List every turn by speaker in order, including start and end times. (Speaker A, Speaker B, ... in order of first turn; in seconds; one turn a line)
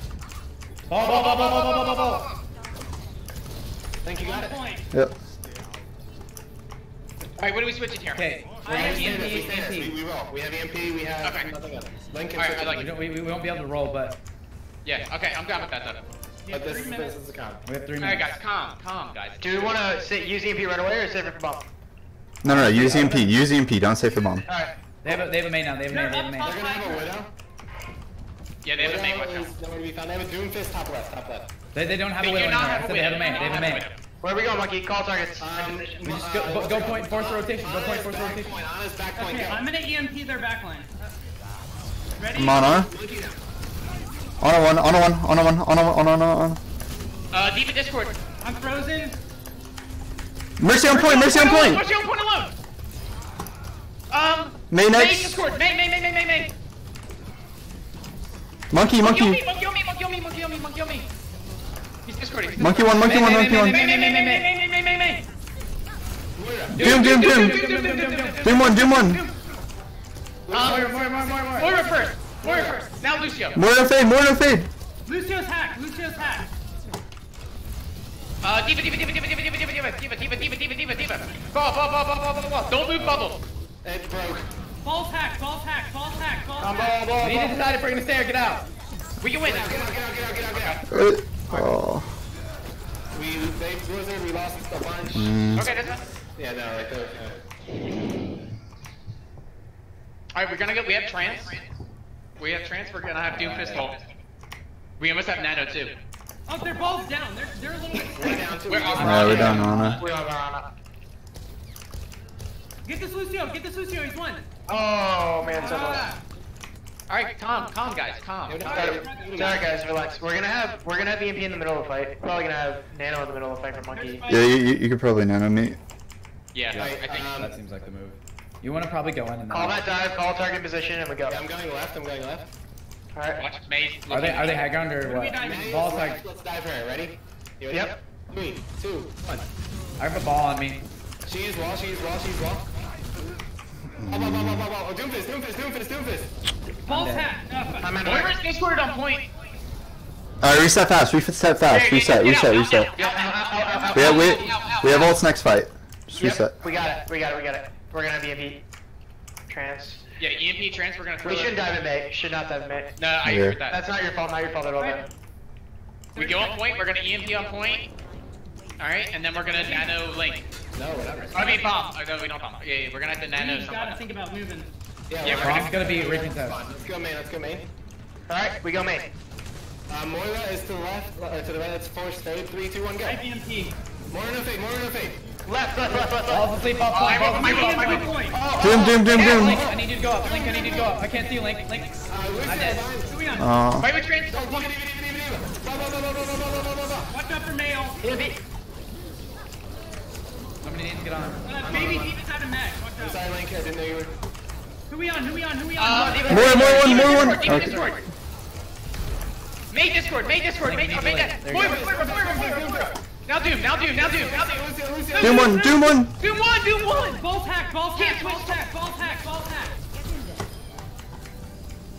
Speaker A: 0.9-2.2
Speaker B: 1.0-2.0
Speaker C: 1.1-1.6
Speaker B: 4.0-4.6
Speaker D: 4.2-4.9
Speaker C: 7.4-8.8
Speaker A: 8.1-10.0
Speaker D: 8.4-9.5
Speaker B: 8.7-12.9
Speaker C: 11.2-11.5
Speaker C: 12.4-12.9
Speaker A: 12.7-14.2
Speaker C: 14.8-16.0
Speaker D: 16.4-17.3
Speaker B: 16.5-17.6
Speaker A: 17.6-18.3
Speaker C: 18.0-19.9
Speaker E: 19.4-21.7
Speaker F: 22.4-24.5
Speaker A: 22.4-23.3
Speaker E: 24.5-24.8
Speaker A: 25.0-26.5
Speaker D: 25.9-27.2
Speaker B: 26.4-27.3
Speaker C: 28.6-29.5
Speaker B: 28.8-31.5
Speaker A: 31.7-33.9
Speaker C: 32.2-34.0
Speaker D: 33.1-33.8
Speaker E: 34.2-36.1
Speaker B: 35.4-39.7
Speaker A: 36.0-38.6
Speaker D: 39.1-41.1
Speaker D: 42.2-42.9
Speaker F: 42.4-42.9
Speaker B: 42.9-43.4
Speaker F: 44.4-46.6
Speaker C: 47.3-48.2
Speaker D: 48.4-49.2
Speaker F: 50.6-51.9
Speaker C: 50.8-52.5
Speaker C: 54.1-56.5
Speaker F: 54.7-55.5
Speaker F: 58.7-59.4
Speaker C: 59.0-61.1
Speaker C: 62.1-65.2
Speaker F: 62.6-63.9
Speaker A: 63.0-64.5
Speaker B: 66.4-66.9
Speaker F: 66.8-67.6
Speaker C: 66.8-69.2
Speaker A: 66.9-68.6
Speaker F: 68.4-69.2
Speaker D: 68.6-69.2
Speaker B: 70.5-71.0
Speaker C: 70.5-73.6
Speaker A: 70.5-71.7
Speaker B: 72.4-72.8
Speaker F: 73.5-74.7
Speaker D: 75.1-76.5
Speaker C: 78.4-83.4
Speaker B: 83.0-83.3
Speaker B: 83.8-84.5
Speaker D: 84.8-87.0
Speaker E: 86.6-87.5
Speaker B: 87.0-87.6
Speaker A: 87.2-88.7
Speaker C: 89.2-91.1
Speaker B: 89.4-90.8
Speaker F: 90.9-92.1
Speaker B: 93.1-95.4
Speaker F: 95.1-95.7
Speaker C: 95.5-96.0
Speaker B: 96.3-97.4
Speaker C: 100.3-101.6
Speaker C: 102.4-104.0
Speaker A: 103.2-103.9
Speaker C: 105.0-106.0
Speaker D: 106.5-108.7
Speaker B: 108.1-109.6
Speaker C: 108.7-110.2
Speaker F: 109.0-110.0
Speaker A: 109.0-110.0
Speaker E: 109.0-110.7
Speaker D: 112.8-114.5
Speaker E: 114.7-116.1
Speaker D: 115.5-116.2
Speaker C: 117.1-118.8
Speaker B: 118.5-119.6
Speaker D: 118.6-119.7
Speaker E: 118.7-124.2
Speaker D: 123.9-124.5
Speaker F: 124.3-125.8
Speaker C: 126.5-127.3
Speaker A: 126.7-129.9
Speaker B: 126.7-127.6
Speaker E: 129.5-131.4
Speaker B: 131.3-132.5
Speaker E: 133.1-133.5
Speaker C: 133.4-134.7
Speaker A: 134.1-136.2
Speaker D: 134.9-135.8
Speaker B: 135.4-139.5
Speaker E: 137.7-138.0
Speaker A: 140.0-140.8
Speaker B: 141.2-142.8
Speaker F: 144.0-144.7
Speaker B: 144.1-146.3
Speaker D: 146.9-148.1
Speaker A: 146.9-147.4
Speaker E: 147.8-148.4
Speaker C: 148.0-149.3
Speaker F: 150.4-152.9
Speaker C: 151.7-155.1
Speaker E: 153.0-154.5
Speaker D: 153.7-154.1
Speaker F: 153.9-156.6
Speaker E: 156.2-158.6
Speaker E: 159.5-160.0
Speaker C: 160.2-161.6
Speaker E: 161.2-162.9
Speaker C: 163.0-163.8
Speaker F: 163.2-163.6
Speaker E: 163.7-165.1
Speaker D: 164.8-165.1
Speaker D: 166.2-166.6
Speaker C: 166.2-167.9
Speaker C: 168.8-170.5
Speaker D: 169.6-169.9
Speaker B: 170.7-171.6
Speaker C: 171.3-174.0
Speaker D: 173.3-174.7
Speaker B: 175.1-177.7
Speaker C: 175.2-175.8
Speaker A: 175.3-176.6
Speaker E: 178.3-179.1
Speaker B: 179.9-183.2
Speaker D: 183.0-183.8
Speaker B: 184.1-185.2
Speaker E: 185.4-186.6
Speaker B: 185.9-186.2
Speaker A: 186.2-188.0
Speaker C: 186.9-188.3
Speaker D: 187.0-188.5
Speaker E: 188.3-189.3
Speaker B: 188.5-191.0
Speaker F: 188.6-189.6
Speaker C: 189.1-189.5
Speaker A: 189.3-192.9
Speaker B: 192.1-193.1
Speaker D: 193.1-193.6
Speaker F: 193.4-193.9
Speaker C: 193.8-194.7
Speaker B: 194.2-197.1
Speaker D: 197.1-198.0
Speaker E: 198.0-198.4
Speaker A: 200.6-201.5
Speaker D: 201.4-203.3
Speaker B: 201.6-202.2
Speaker B: 203.0-204.2
Speaker D: 204.9-207.8
Speaker C: 205.8-208.0
Speaker E: 205.9-207.5
Speaker F: 206.3-207.9
Speaker C: 209.7-214.7
Speaker A: 210.6-211.9
Speaker B: 211.5-213.0
Speaker B: 213.9-215.5
Speaker D: 215.1-219.8
Speaker F: 215.2-216.1
Speaker C: 216.2-217.2
Speaker C: 218.0-218.6